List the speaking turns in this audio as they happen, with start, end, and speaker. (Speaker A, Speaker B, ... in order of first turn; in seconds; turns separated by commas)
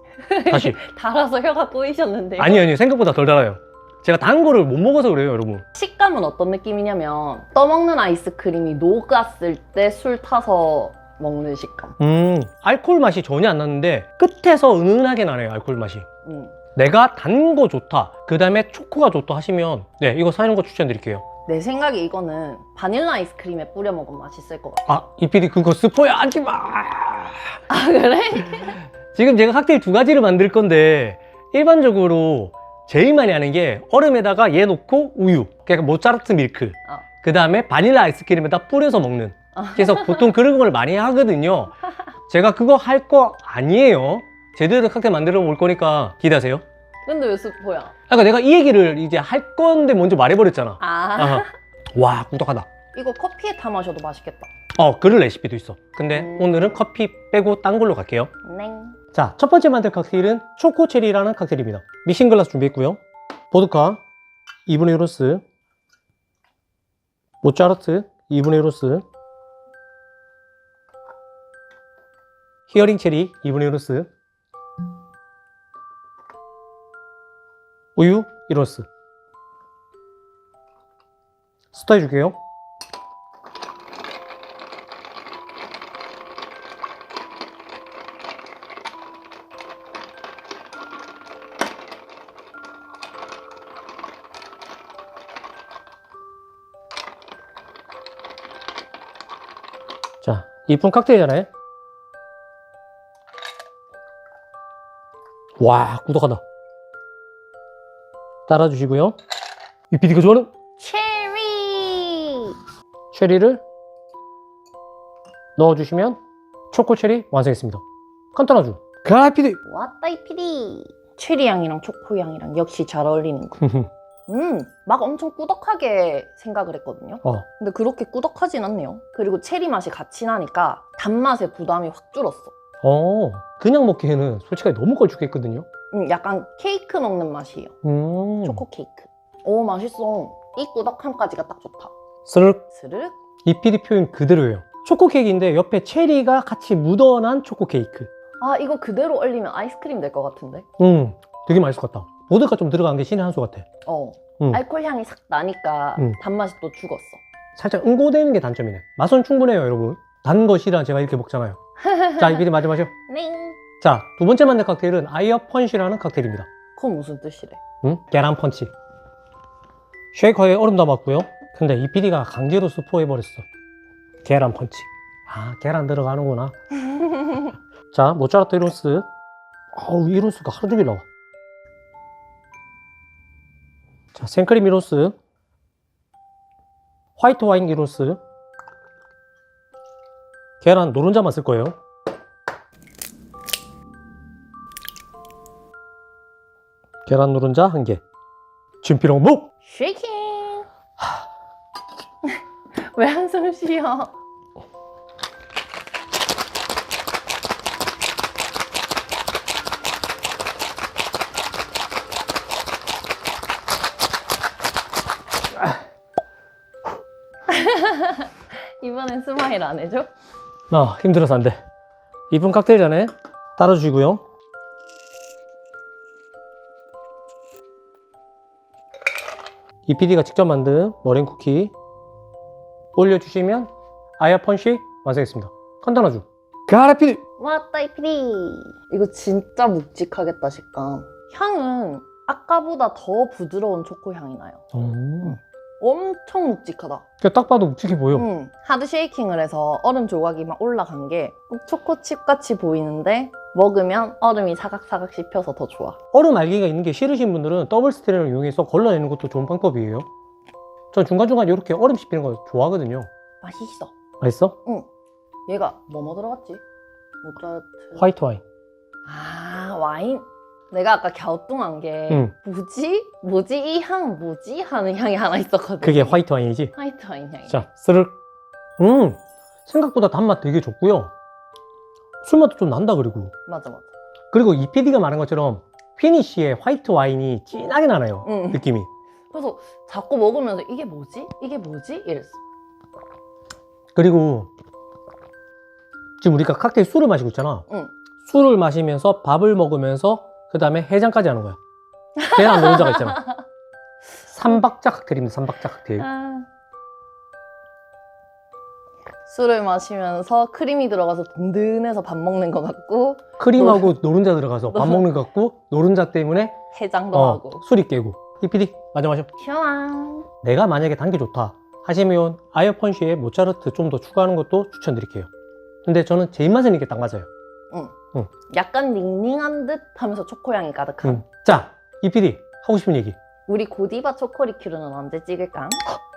Speaker A: 0.2-2.7, Speaker B: 0.5-0.8, Speaker B: 2.4-5.7, Speaker A: 5.8-12.0, Speaker B: 12.0-16.1, Speaker A: 16.2-16.6, Speaker B: 16.8-21.2, Speaker A: 21.5-25.0, Speaker B: 24.9-27.6, Speaker A: 27.7-28.8, Speaker B: 28.6-46.6, Speaker A: 39.5-40.3, Speaker A: 47.1-47.9, Speaker B: 48.1-52.7, Speaker A: 50.8-51.5, Speaker A: 52.9-54.5, Speaker B: 54.8-58.3, Speaker A: 56.1-56.8, Speaker A: 58.4-59.0, Speaker B: 59.1-63.0, Speaker B: 63.5-64.0, Speaker B: 64.7-65.4, Speaker B: 67.4-69.0, Speaker B: 72.7-74.1, Speaker B: 78.0-78.9, Speaker B: 81.7-82.4, Speaker B: 100.2-101.5, Speaker B: 105.6-106.4, Speaker B: 108.5-109.2, Speaker B: 109.9-110.5, Speaker A: 110.8-112.5, Speaker B: 113.1-113.6, Speaker B: 115.6-116.2, Speaker B: 116.7-117.8, Speaker B: 118.3-119.6, Speaker A: 119.7-123.6, Speaker B: 123.6-123.9, Speaker A: 124.3-132.5, Speaker B: 132.8-135.7, Speaker A: 135.9-137.7, Speaker B: 137.8-138.6, Speaker A: 138.4-141.9, Speaker B: 142.3-142.6, Speaker A: 142.7-143.2, Speaker B: 143.4-148.1, Speaker A: 148.4-150.7, Speaker B: 150.8-153.7, Speaker A: 153.9-157.2, Speaker B: 157.6-161.6, Speaker A: 161.8-162.5, Speaker B: 162.2-162.9, Speaker A: 163.1-163.6, Speaker B: 163.8-166.5, Speaker A: 166.8-167.6, Speaker B: 167.8-168.7, Speaker B: 170.1-173.5, Speaker B: 174.2-176.6, Speaker A: 176.9-177.5, Speaker B: 177.9-179.1, Speaker B: 179.8-181.1, Speaker B: 184.1-185.2, Speaker B: 187.2-188.2, Speaker B: 190.6-191.8, Speaker B: 197.1-198.0, Speaker B: 198.8-199.5, Speaker A: 199.6-200.7, Speaker A: 202.3-204.1, Speaker A: 217.5-220.1, Speaker B: 220.7-221.6, Speaker B: 222.3-224.2, Speaker B: 229.9-231.7, Speaker B: 233.0-237.2, Speaker A: 237.4-244.6, Speaker B: 244.7-245.4, Speaker A: 245.2-247.0, Speaker B: 247.2-248.3, Speaker A: 248.1-256.0, Speaker B: 256.1-260.1, Speaker B: 260.9-263.1, Speaker A: 263.4-263.9, Speaker B: 264.2-264.6, Speaker A: 265.5-266.6, Speaker A: 267.2-268.0, Speaker B: 268.0-268.4, Speaker A: 269.1-276.2, Speaker B: 272.1-272.3, Speaker B: 275.8-276.7, Speaker A: 276.8-277.6, Speaker B: 277.5-278.2, Speaker B: 278.8-281.1, Speaker B: 282.2-283.3, Speaker A: 283.5-283.9, Speaker B: 284.3-288.9, Speaker A: 288.2-288.6, Speaker A: 289.3-292.4, Speaker B: 293.9-294.5, Speaker B: 296.2-297.7, Speaker B: 298.2-301.6, Speaker A: 302.2-303.4, Speaker B: 302.3-303.2, Speaker B: 304.3-306.1, Speaker A: 306.0-306.5, Speaker A: 309.3-313.9, Speaker B: 313.4-316.6, Speaker A: 314.7-315.1, Speaker A: 316.7-317.6, Speaker B: 317.1-319.3, Speaker A: 319.4-320.3, Speaker B: 320.4-325.3, Speaker B: 325.9-327.3, Speaker A: 328.5-331.2, Speaker B: 331.0-333.2, Speaker A: 333.5-335.8